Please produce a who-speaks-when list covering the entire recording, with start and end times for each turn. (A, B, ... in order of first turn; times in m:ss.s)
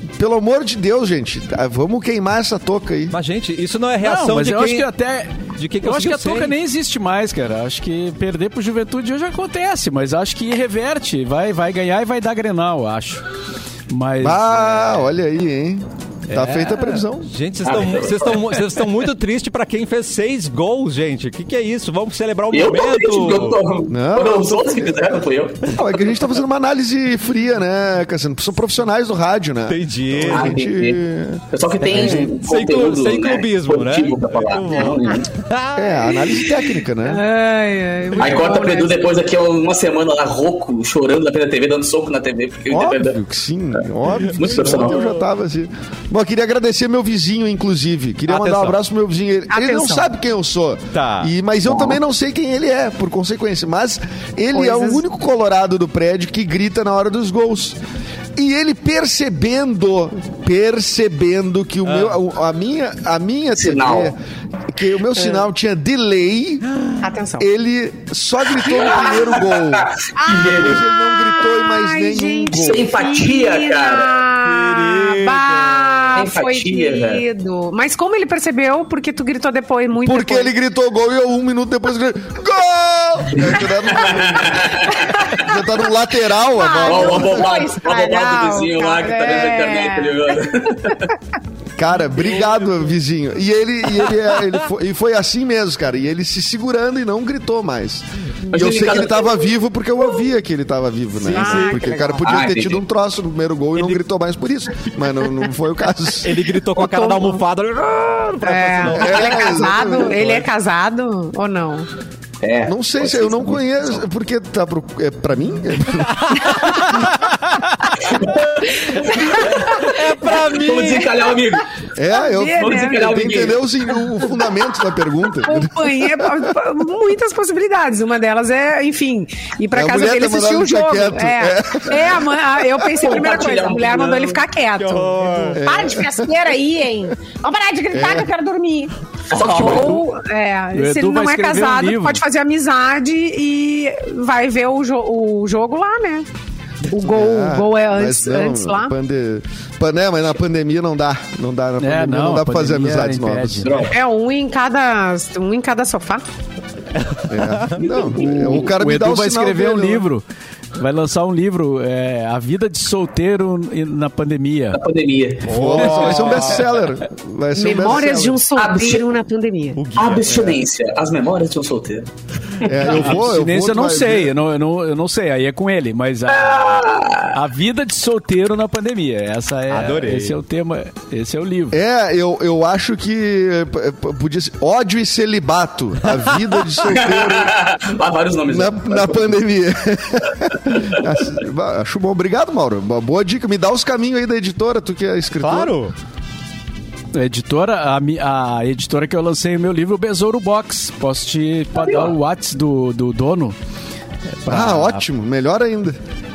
0:00.2-0:03.1 A
0:03.1-0:04.9 B
0:04.0-0:13.2 C
0:05.6-0:06.5 B
0:13.9-0:15.0 C
0:14.2-0:17.3 A
0:16.5-0:23.6 B
0:17.6-0:18.4 D
0:22.5-0:25.8 D
0:23.9-0:25.1 A
0:25.7-0:31.4 A
0:29.7-0:30.6 B
0:30.3-0:35.3 D
0:31.8-0:36.5 B
0:35.8-0:37.2 A
0:37.0-0:39.0 E
0:38.2-0:43.2 D
0:42.7-0:57.8 A
0:44.2-0:45.2 B
0:44.3-0:45.0 D
0:48.3-0:48.8 B
0:49.5-0:50.1 E
0:50.9-0:51.3 B
0:54.5-0:55.0 E
0:58.4-1:06.6 A
1:01.8-1:02.2 B
1:03.6-1:04.1 D
1:05.2-1:05.5 E
1:06.7-1:07.0 B
1:07.0-1:07.5 E
1:07.4-1:12.9 A
1:08.6-1:10.8 D
1:08.7-1:09.3 E
1:10.2-1:20.5 E
1:12.5-1:14.2 D
1:14.4-1:16.2 B
1:16.2-1:17.2 D
1:20.0-1:27.6 A
1:23.3-1:25.3 D
1:24.9-1:31.0 E
1:26.7-1:31.1 D
1:31.8-1:46.4 A
1:38.5-1:39.5 D
1:41.2-1:41.8 B
1:41.3-1:42.2 E
1:42.2-1:42.8 D
1:46.2-1:49.8 B
1:46.8-1:47.4 E
1:48.4-1:51.9 E
1:48.8-1:50.5 A
1:52.4-1:53.4 D
1:52.6-1:56.1 A
1:56.0-1:57.1 B
1:58.0-1:59.9 D
1:58.8-2:00.0 E
1:59.6-2:01.1 B
2:00.5-2:01.7 D
2:02.0-2:06.5 A
2:02.1-2:03.0 E
2:02.4-2:03.6 D
2:05.4-2:26.3 E
2:09.7-2:12.9 A
2:13.0-2:14.4 D
2:14.8-2:15.6 B
2:15.5-2:16.3 A
2:17.9-2:18.3 A
2:19.3-2:20.0 D
2:20.7-2:22.2 C
2:26.9-2:28.9 E
2:26.9-2:33.7 A
2:31.8-2:33.8 C
2:33.7-2:33.9 B
2:33.9-2:36.2 E
2:37.0-2:37.8 B
2:37.3-2:40.0 A
2:37.8-2:38.7 D
2:38.5-2:40.2 C
2:40.8-2:44.8 C
2:44.7-2:45.5 D
2:45.4-2:46.9 B
2:45.5-2:48.4 A
2:47.6-2:49.8 E
2:48.6-2:49.1 D
2:49.8-2:50.5 B
2:50.0-2:53.0 D
2:52.6-2:54.3 A
2:52.9-3:01.8 C
2:56.4-2:57.3 D
2:59.7-3:00.4 B
3:01.7-3:07.5 A
3:06.8-3:09.4 D
3:08.5-3:15.7 A
3:10.7-3:11.0 D
3:15.4-3:15.9 B
3:17.1-3:23.6 C
3:21.8-3:22.1 D
3:24.4-3:25.0 C
3:24.5-3:26.0 A